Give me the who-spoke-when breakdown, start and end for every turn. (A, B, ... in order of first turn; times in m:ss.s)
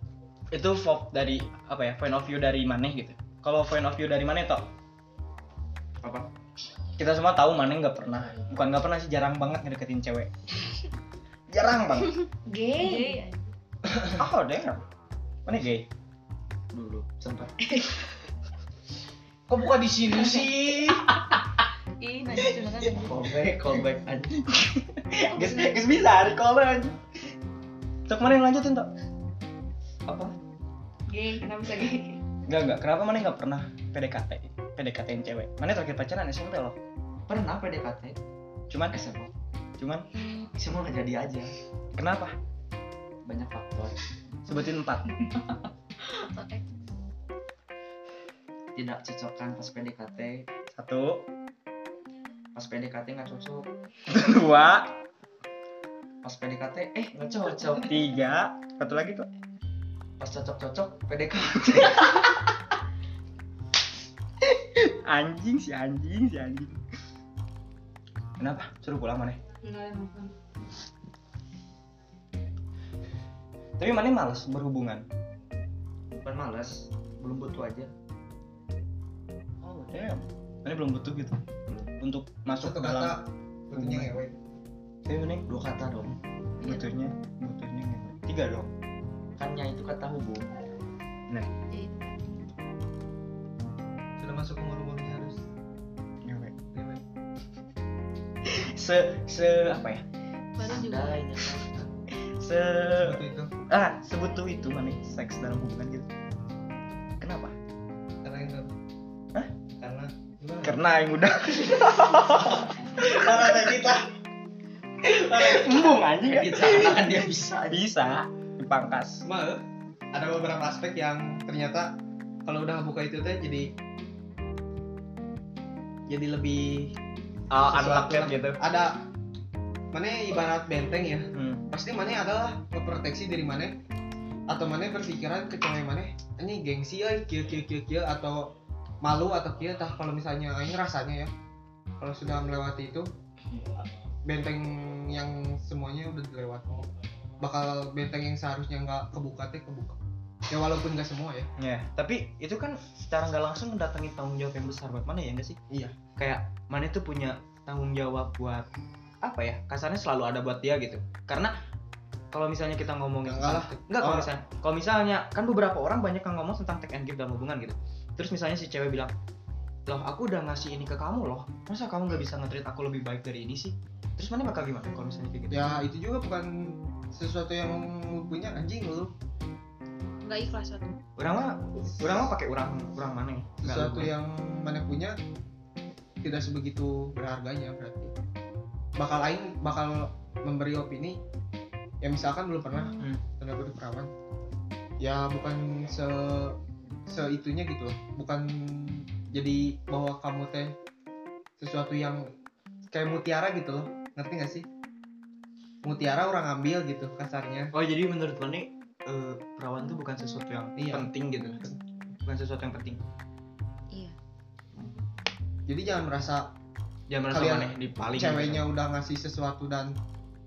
0:00.5-0:04.6 A
0:06.0-0:06.3 B
0:07.0-0:10.3 A
0:11.5-0:12.2 A
0:12.5-0:13.2 C
0:12.8-0:13.5 D
0:14.1-0:14.8 A
0:15.4-0:15.9 A
0:16.7-0:17.7 B
0:19.5-0:20.6 E
0:20.2-0:21.4 A
0:22.0-0:23.0 D
0:22.4-0:22.7 A
0:22.8-0:24.4 B
0:24.4-0:27.0 A
0:28.1-0:28.9 A
0:30.1-0:30.3 B
0:31.1-0:32.2 C
0:32.5-0:36.8 A
0:37.3-0:38.2 B
0:38.7-0:38.9 A
0:38.9-0:39.3 B
0:39.8-0:40.1 A
0:40.5-0:41.5 B
0:42.0-0:42.3 A
0:43.2-0:44.0 B
0:44.4-0:45.1 A
0:46.0-0:46.6 D
0:48.7-0:50.5 B
0:50.7-0:51.2 A
0:52.5-0:53.6 B
0:54.1-0:55.0 A
0:56.2-0:57.9 B
0:57.6-0:59.3 A
1:00.2-1:02.2 B
1:01.7-1:02.5 A
1:04.4-1:06.8 A
1:08.4-1:09.4 A
1:09.6-1:10.3 C
1:13.8-1:15.0 A
1:16.2-1:17.9 B
1:19.6-1:21.4 A
1:22.0-1:23.2 A
1:22.6-1:24.4 E
1:23.7-1:24.2 A
1:25.0-1:25.4 A
1:25.5-1:26.2 B
1:26.6-1:26.9 D
1:26.6-1:28.7 A
1:29.4-1:30.5 B
1:31.5-1:32.4 D
1:34.2-1:35.4 E
1:36.2-1:36.5 A
1:36.7-1:37.0 E
1:38.4-1:40.0 A
1:40.6-1:41.3 D
1:40.6-1:41.9 B
1:42.2-1:46.1 A
1:43.0-1:43.5 E
1:47.2-1:47.5 A
1:48.2-1:48.7 E
1:49.8-1:50.8 E
1:50.6-1:54.0 A
1:53.1-1:53.9 E
1:55.0-1:59.2 A
1:55.6-1:57.8 B
1:59.2-2:03.7 E
2:06.1-2:07.0 E
2:07.5-2:08.6 A
2:07.5-2:09.0 E
2:09.9-2:13.8 E
2:11.3-2:11.6 A
2:14.5-2:18.5 E
2:19.0-2:21.3 E
2:22.0-2:23.1 E
2:24.2-2:26.9 E
2:27.4-2:30.0 E
2:30.5-2:31.5 E
2:31.6-2:35.6 A
2:36.2-2:38.6 A
2:39.2-2:41.5 A
2:42.3-2:49.1 A
2:43.2-2:44.3 E
2:49.9-2:55.8 A
2:55.5-2:59.1 E
3:00.2-3:00.9 D
3:01.2-3:04.1 A
3:03.6-3:05.2 E
3:06.2-3:08.1 E
3:09.0-3:11.2 E
3:12.0-3:14.1 E
3:15.0-3:16.6 E
3:17.1-3:20.7 E
3:21.6-3:22.3 E
3:22.9-3:24.6 E
3:25.8-3:27.7 E
3:27.7-3:31.7 A
3:30.8-3:31.8 E
3:32.2-3:33.0 A
3:35.7-3:36.5 E
3:37.1-3:38.6 A
3:37.3-3:39.9 E